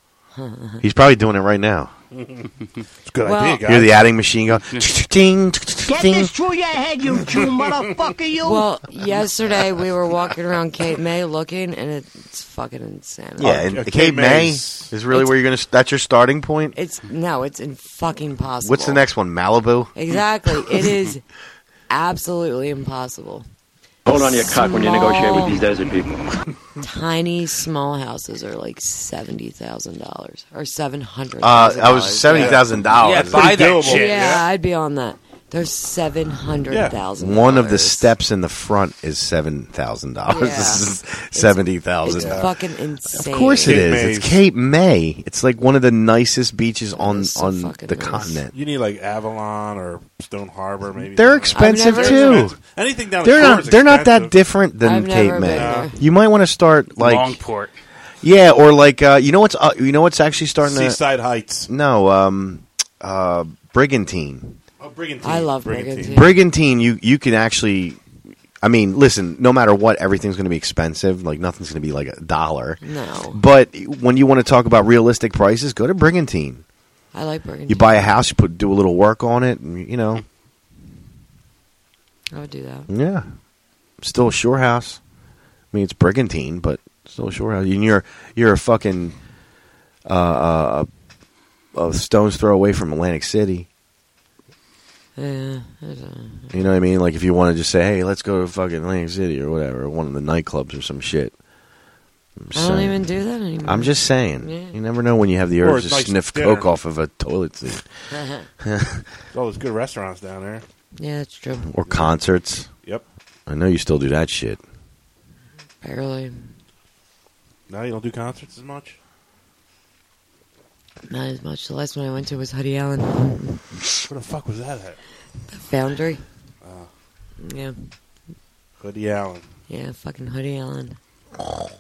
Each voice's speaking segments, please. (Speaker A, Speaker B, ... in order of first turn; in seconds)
Speaker A: 0.3-0.8, 3.2-3.6, 8.4-13.6, 15.1-15.4, 16.8-19.0, 19.9-21.2, 21.9-23.5, 24.1-25.6, 26.8-32.6, 33.9-38.1, 40.3-43.8, 47.0-48.5, 51.5-52.5, 54.8-56.0, 65.2-66.4, 72.8-73.4, 77.1-78.1, 82.3-82.9, 95.2-96.7, 102.5-104.8, 108.1-108.5, 111.0-111.7, 115.8-116.5, 121.1-123.6, 125.5-126.2, 127.4-127.9, 129.7-131.0
Speaker B: 0.8-1.9, 3.6-6.3, 13.4-16.8, 18.6-19.9, 31.4-33.6, 37.2-42.5, 43.1-48.5, 51.1-52.6, 53.2-57.4, 58.2-61.0, 61.7-64.6, 66.1-68.0, 68.6-72.8, 73.3-76.6, 77.7-80.2, 82.9-83.3, 84.0-85.0, 85.7-89.2, 90.1-90.9, 91.7-93.7, 96.5-101.3, 102.4-103.0, 103.6-107.9, 108.6-109.1, 111.7-112.7, 113.5-114.6
Speaker C: 2.1-2.5, 3.1-3.9, 13.4-14.9, 32.3-34.4, 36.7-37.0, 42.1-42.5, 43.6-44.4, 48.5-54.3, 55.4-55.9, 60.6-61.7, 64.8-66.2, 105.6-106.7, 109.3-110.6, 117.7-119.0, 124.0-125.0, 126.6-126.9, 128.8-129.5
Speaker D: 5.9-8.7
Speaker E: 24.1-26.2
Speaker F: 33.0-34.3, 57.0-57.7